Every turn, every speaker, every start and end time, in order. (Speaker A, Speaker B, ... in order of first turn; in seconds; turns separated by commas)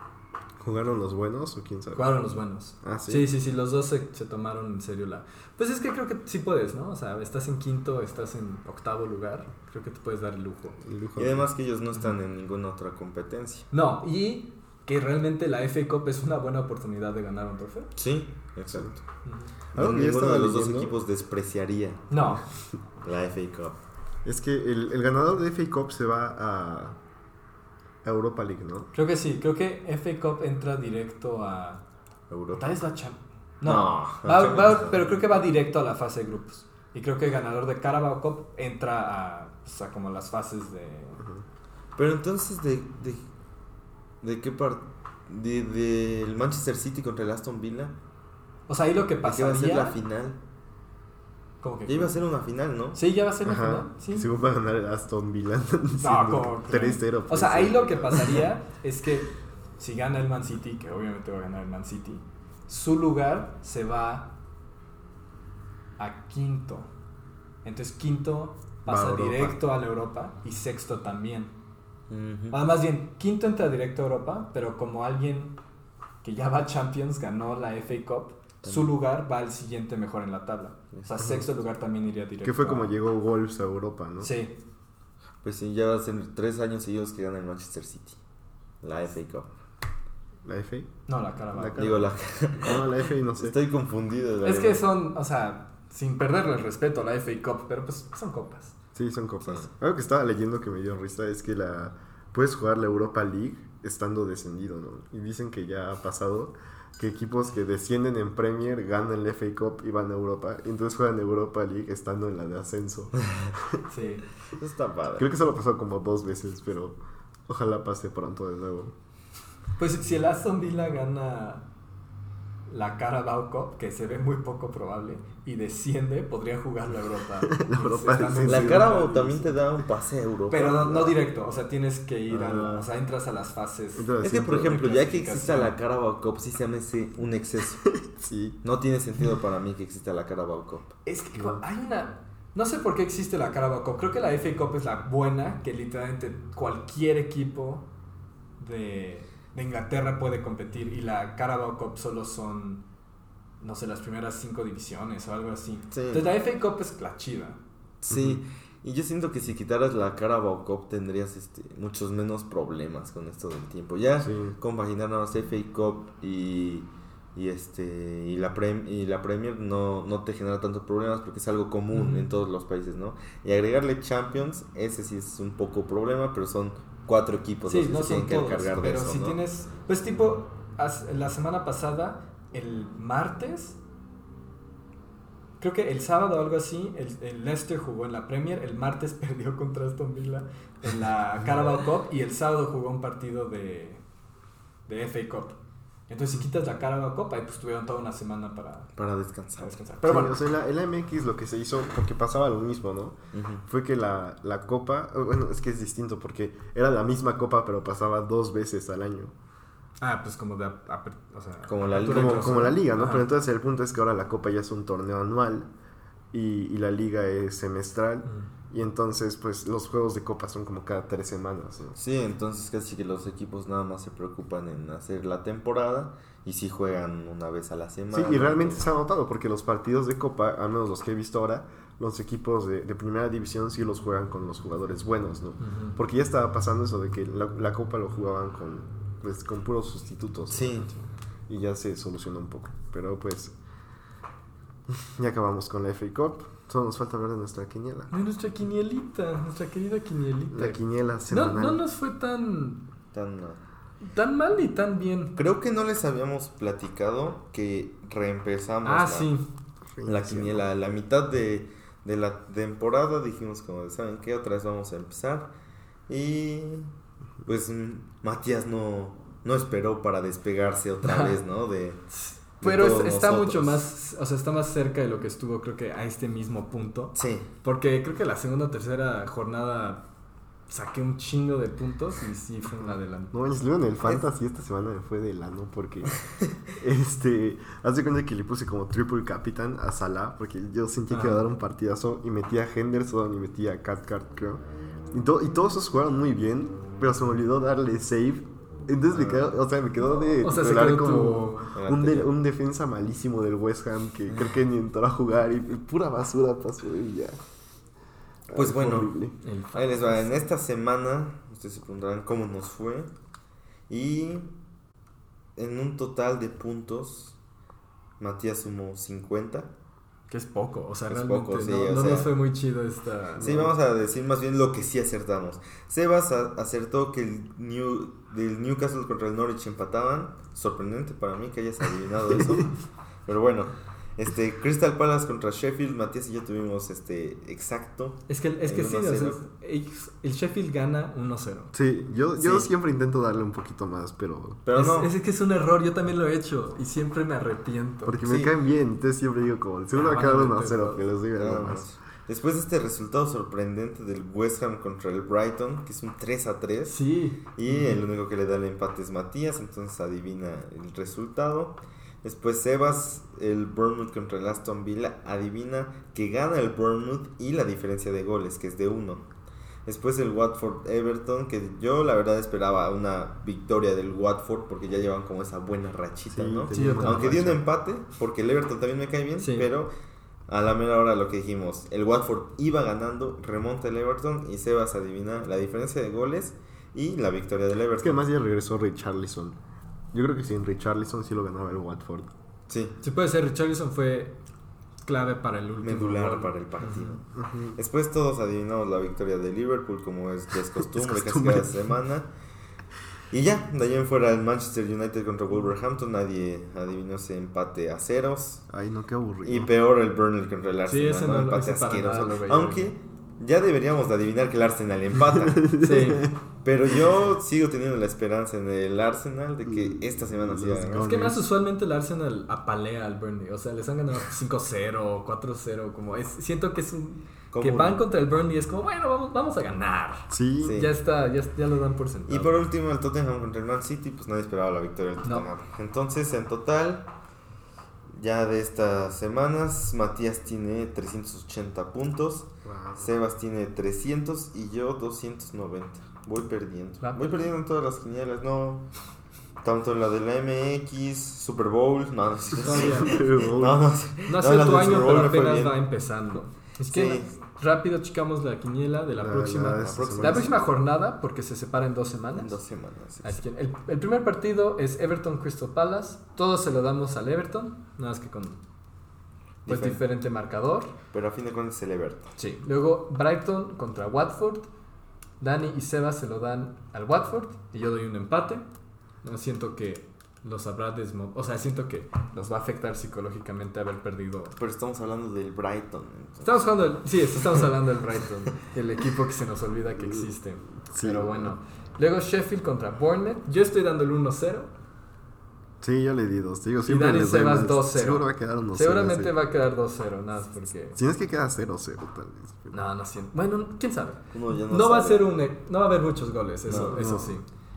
Speaker A: 0.6-2.3, Speaker B: 1.9-10.8, Speaker A: 2.8-3.3, Speaker A: 10.8-11.5, Speaker C: 11.2-13.7, Speaker B: 13.7-17.9, Speaker C: 17.9-19.0, Speaker A: 18.7-19.0, Speaker B: 19.2-19.5, Speaker C: 19.7-22.1, Speaker A: 19.7-20.9, Speaker B: 22.1-22.4, Speaker C: 23.0-23.8, Speaker A: 24.2-27.0, Speaker A: 28.0-28.9, Speaker B: 28.9-31.8, Speaker C: 32.3-32.6, Speaker B: 32.5-41.2, Speaker C: 33.6-35.0, Speaker C: 42.0-43.2, Speaker C: 44.2-47.9, Speaker B: 48.7-50.0, Speaker C: 49.2-50.4, Speaker B: 51.6-52.1, Speaker C: 51.9-53.0, Speaker B: 52.9-54.3, Speaker A: 53.4-58.5, Speaker B: 56.0-64.3, Speaker B: 66.0-66.9, Speaker B: 67.6-71.5, Speaker A: 68.8-69.6, Speaker C: 72.1-72.6, Speaker B: 72.5-75.5, Speaker B: 76.2-82.9, Speaker C: 78.6-78.9, Speaker A: 82.4-84.3, Speaker B: 84.2-84.5, Speaker C: 85.4-88.2, Speaker C: 88.8-89.5, Speaker A: 90.4-91.0, Speaker B: 91.1-91.9, Speaker A: 91.5-93.5, Speaker C: 91.8-92.8, Speaker C: 93.4-94.8, Speaker B: 94.4-98.7, Speaker A: 98.9-113.8, Speaker B: 113.9-114.2, Speaker C: 114.6-115.3, Speaker A: 115.2-118.9, Speaker B: 119.8-121.6, Speaker B: 122.7-129.5, Speaker A: 127.4-128.9, Speaker C: 128.4-131.2, Speaker B: 130.5-135.7, Speaker C: 132.3-132.8, Speaker A: 133.9-134.8, Speaker C: 134.2-137.9, Speaker A: 137.9-138.6, Speaker C: 138.6-140.9, Speaker B: 141.0-147.8, Speaker B: 148.6-152.8, Speaker B: 153.6-157.6, Speaker C: 155.9-156.3, Speaker C: 158.0-179.4, Speaker A: 158.1-158.4, Speaker A: 164.2-164.6, Speaker B: 171.9-172.3, Speaker B: 177.7-183.8, Speaker B: 185.6-194.0, Speaker B: 194.9-198.9, Speaker C: 198.9-199.8, Speaker B: 199.6-200.4, Speaker A: 200.0-209.3, Speaker C: 203.3-203.6, Speaker B: 210.0-213.3, Speaker C: 211.7-212.7, Speaker A: 212.1-215.7, Speaker A: 216.3-221.9, Speaker B: 218.2-218.5, Speaker C: 221.9-228.8, Speaker A: 228.1-240.9, Speaker B: 235.6-235.9, Speaker C: 240.5-240.9, Speaker A: 241.5-243.5, Speaker A: 244.9-248.1, Speaker B: 248.1-252.8, Speaker A: 250.5-251.8, Speaker C: 253.1-253.6, Speaker B: 254.0-255.3, Speaker C: 255.3-259.3, Speaker B: 258.8-259.4, Speaker A: 259.9-260.6, Speaker C: 260.1-265.5, Speaker C: 266.1-266.9, Speaker C: 267.4-272.0, Speaker B: 271.0-271.4, Speaker B: 272.1-280.0, Speaker C: 272.6-273.8, Speaker C: 277.1-277.5, Speaker B: 280.7-283.3, Speaker A: 282.8-286.1, Speaker A: 286.8-307.4, Speaker B: 291.1-291.5, Speaker C: 299.1-299.6, Speaker B: 300.4-301.7, Speaker C: 301.8-302.3, Speaker A: 308.5-309.3, Speaker C: 308.5-309.1, Speaker B: 309.4-310.4, Speaker C: 309.7-313.1, Speaker C: 313.9-314.5, Speaker C: 315.6-317.4, Speaker C: 318.2-319.7, Speaker B: 320.3-323.7, Speaker C: 321.1-322.3, Speaker A: 323.4-323.7, Speaker C: 323.4-339.4, Speaker B: 338.3-341.7, Speaker A: 341.7-344.6, Speaker C: 342.4-342.7, Speaker C: 344.6-345.1, Speaker B: 344.7-348.2, Speaker A: 348.0-351.8, Speaker C: 348.2-348.5, Speaker B: 349.9-351.0, Speaker C: 351.4-357.0, Speaker B: 356.9-358.0, Speaker C: 357.5-369.2, Speaker C: 369.9-379.9, Speaker A: 376.3-377.6, Speaker B: 376.7-377.4, Speaker B: 379.4-379.7, Speaker C: 380.5-388.2, Speaker A: 388.0-389.6, Speaker A: 390.1-392.3, Speaker C: 392.7-392.9, Speaker B: 393.0-394.4, Speaker B: 395.0-397.1, Speaker C: 395.8-402.3, Speaker A: 397.3-397.8, Speaker A: 400.9-401.8, Speaker C: 403.3-408.6, Speaker A: 408.7-409.7, Speaker C: 409.4-415.9, Speaker B: 410.9-412.9, Speaker A: 415.5-416.3, Speaker B: 415.7-416.3, Speaker C: 416.6-421.1, Speaker A: 419.6-421.4, Speaker B: 421.0-432.6, Speaker C: 427.5-428.0, Speaker A: 430.3-430.8, Speaker C: 430.6-430.9, Speaker C: 432.3-437.1, Speaker C: 438.1-448.9, Speaker A: 442.6-443.1, Speaker B: 447.0-447.2, Speaker C: 449.6-455.8, Speaker B: 452.5-453.2, Speaker A: 452.7-453.9, Speaker B: 454.3-462.6, Speaker C: 456.9-457.3, Speaker A: 459.2-460.6, Speaker C: 459.8-460.6, Speaker C: 462.3-463.4, Speaker B: 463.2-468.6, Speaker C: 469.6-470.0, Speaker B: 469.7-470.9, Speaker C: 471.1-472.3, Speaker B: 472.4-474.7, Speaker B: 475.4-478.6, Speaker B: 479.2-484.6, Speaker C: 484.6-486.6, Speaker B: 486.4-494.7, Speaker A: 490.9-491.5, Speaker A: 495.8-499.3, Speaker B: 496.9-501.0, Speaker A: 500.9-502.8, Speaker B: 502.7-507.4, Speaker C: 504.3-505.3, Speaker C: 506.7-507.0, Speaker A: 506.7-507.4